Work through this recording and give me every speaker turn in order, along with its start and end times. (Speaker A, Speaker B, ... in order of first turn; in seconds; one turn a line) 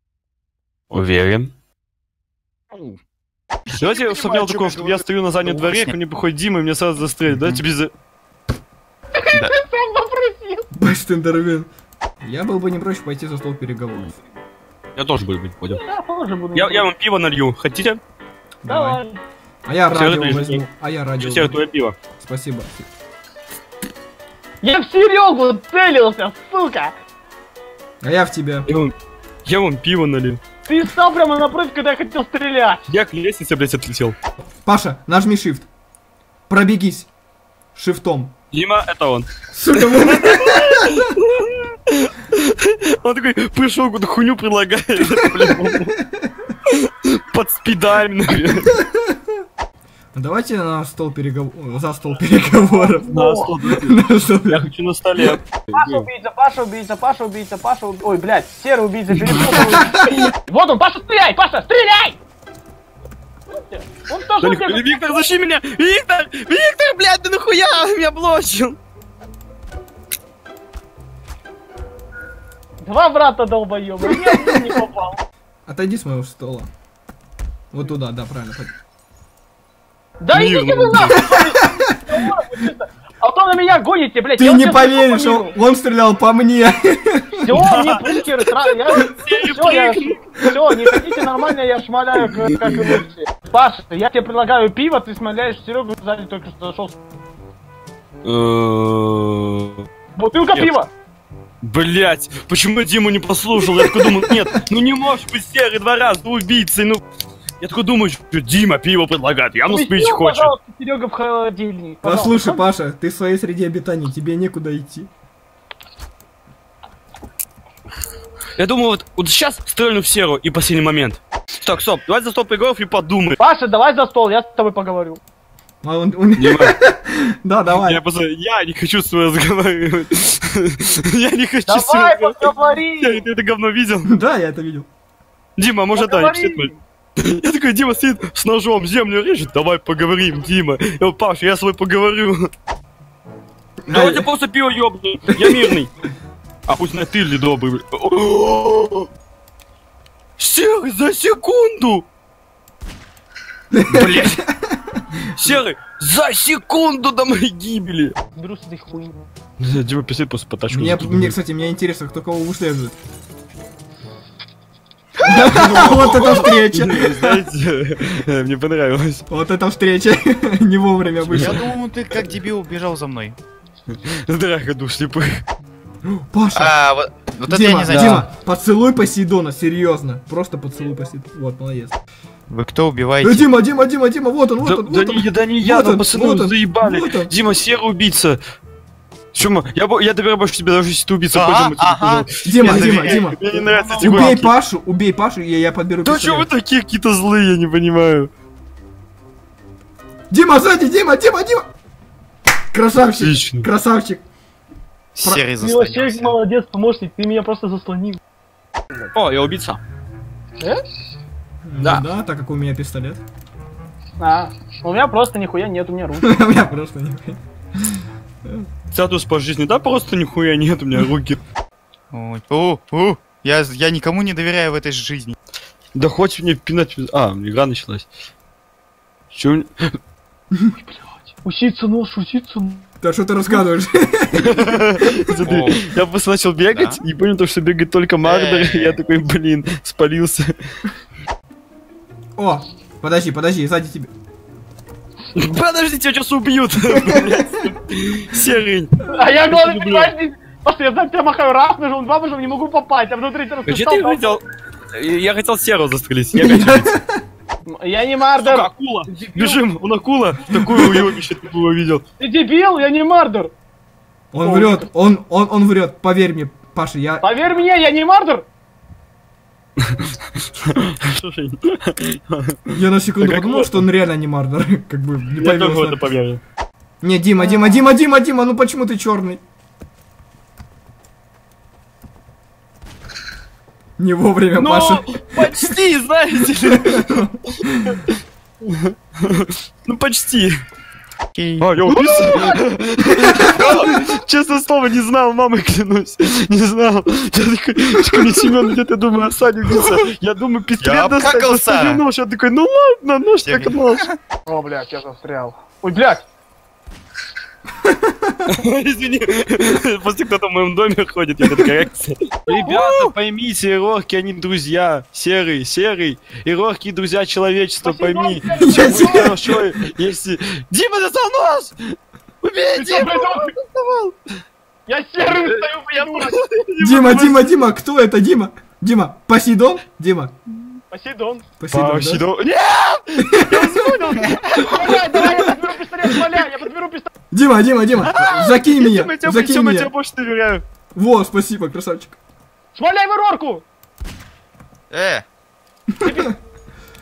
Speaker A: 0.9-1.5
Speaker B: 2.7-3.0
Speaker B: 3.7-5.9
Speaker A: 3.7-7.9
Speaker B: 7.3-7.6
Speaker C: 9.2-10.7
Speaker D: 10.7-11.7
Speaker D: 12.2-14.2
Speaker A: 15.0-15.8
Speaker C: 15.7-16.9
Speaker A: 16.5-18.0
Speaker D: 18.6-19.0
Speaker C: 18.6-19.2
Speaker D: 19.6-21.6
Speaker A: 19.9-20.6
Speaker A: 21.2-22.0
Speaker D: 22.2-22.9
Speaker C: 24.6-26.9
Speaker D: 28.0-28.7
Speaker A: 28.7-28.9
Speaker A: 29.4-30.4
Speaker C: 30.6-32.8
Speaker A: 32.9-34.1
Speaker D: 34.6-35.7
Speaker D: 36.5-37.1
Speaker D: 37.7-38.3
Speaker A: 38.5-46.0
Speaker D: 39.5-41.0
Speaker A: 46.7-48.8
Speaker D: 48.8-49.1
Speaker D: 50.1-53.1
Speaker C: 52.9-53.5
Speaker A: 53.1-56.1
Speaker D: 53.6-54.7
Speaker C: 55.7-62.2
Speaker D: 59.3-60.3
Speaker C: 63.5-65.3
Speaker A: 64.4-68.8
Speaker C: 72.8-75.2
Speaker D: 75.7-76.7
Speaker D: 77.7-78.7
Speaker C: 80.2-85.5
Speaker A: 80.3-81.3
Speaker D: 84.4-87.5
Speaker C: 87.4-97.0
Speaker A: 87.5-90.9
Speaker A: 92.5-93.0
Speaker A: 98.2-99.8
Speaker C: 100.2-100.9
Speaker A: 101.6-107.0
Speaker A: 107.6-110.5
Speaker C: 109.7-112.6
Speaker D: 112.0-115.1
Speaker A: 118.6-123.4
Speaker C: 123.4-125.2
Speaker D: 125.8-128.0
Speaker A: 126.4-126.8
Speaker A: 127.7-134.1
Speaker C: 131.7-133.2
Speaker D: 134.0-134.9
Speaker A: 135.6-142.5
Speaker C: 135.9-136.8
Speaker D: 143.8-144.3
Speaker A: 143.9-145.9
Speaker A: 146.7-149.1
Speaker A: 150.4-152.1
Speaker D: 153.7-155.6
Speaker A: 153.9-154.4
Speaker A: 155.2-158.2
Speaker C: 158.3-159.2
Speaker A: 159.6-161.3
Speaker D: 160.7-162.9
Speaker A: 165.2-169.2
Speaker D: 165.2-167.4
Speaker B: 165.3-166.0
Speaker D: 169.3-171.6
Speaker A: 171.3-171.6
Speaker B: 171.3-173.4
Speaker A: 173.9-175.4
Speaker D: 176.0-176.8
Speaker B: 176.5-178.3
Speaker D: 177.4-182.0
Speaker B: 182.5-183.5
Speaker D: 183.2-187.3
Speaker A: 184.6-188.4
Speaker A: 189.3-194.5
Speaker B: 191.3-193.3
Speaker D: 192.4-193.4
Speaker C: 193.4-194.4
Speaker D: 194.0-196.5
Speaker A: 196.0-198.3
Speaker D: 200.3-201.7
Speaker D: 202.7-204.2
Speaker A: 203.2-203.7
Speaker B: 205.2-206.4
Speaker C: 205.6-208.2
Speaker A: 209.1-209.8
Speaker D: 211.7-213.2
Speaker A: 211.8-212.1
Speaker C: 214.2-216.4
Speaker D: 216.2-217.4
Speaker A: 218.9-221.4
Speaker B: 222.1-225.3
Speaker A: 225.9-228.1
Speaker A: 229.3-229.9
Speaker C: 230.9-232.8
Speaker D: 233.0-234.6
Speaker A: 234.3-240.5
Speaker B: 235.4-235.8
Speaker B: 236.7-237.0
Speaker B: 238.2-239.0
Speaker D: 242.3-244.1
Speaker A: 245.3-250.1
Speaker C: 249.1-254.4
Speaker A: 253.7-257.0
Speaker D: 256.4-257.2
Speaker C: 257.6-259.6
Speaker A: 258.4-262.0
Speaker D: 260.6-261.0
Speaker C: 262.2-263.5
Speaker D: 264.3-267.3
Speaker C: 264.4-264.9
Speaker C: 267.2-268.5
Speaker A: 270.7-273.7
Speaker D: 272.7-276.1
Speaker A: 275.4-276.4
Speaker D: 277.0-279.4
Speaker C: 277.4-277.8
Speaker D: 284.0-285.8
Speaker A: 284.6-287.3
Speaker D: 286.6-288.0
Speaker A: 287.9-290.6
Speaker B: 291.3-291.7
Speaker A: 291.6-304.1
Speaker C: 292.1-292.6
Speaker B: 293.4-293.8
Speaker B: 300.8-302.0
Speaker B: 303.4-304.1
Speaker C: 304.4-306.2
Speaker D: 307.8-308.5
Speaker A: 308.4-324.1
Speaker C: 312.5-313.1
Speaker C: 317.8-319.4
Speaker D: 318.6-319.4
Speaker C: 322.7-323.5
Speaker C: 324.9-326.4
Speaker A: 325.3-327.6
Speaker D: 326.8-330.4
Speaker C: 330.9-331.4
Speaker D: 331.6-332.3
Speaker A: 331.7-335.3
Speaker D: 333.4-334.2
Speaker C: 334.6-337.1
Speaker D: 337.3-339.9
Speaker A: 338.0-340.6
Speaker D: 340.9-342.2
Speaker C: 342.7-343.6
Speaker B: 344.9-345.2
Speaker D: 346.0-346.3
Speaker C: 346.0-346.3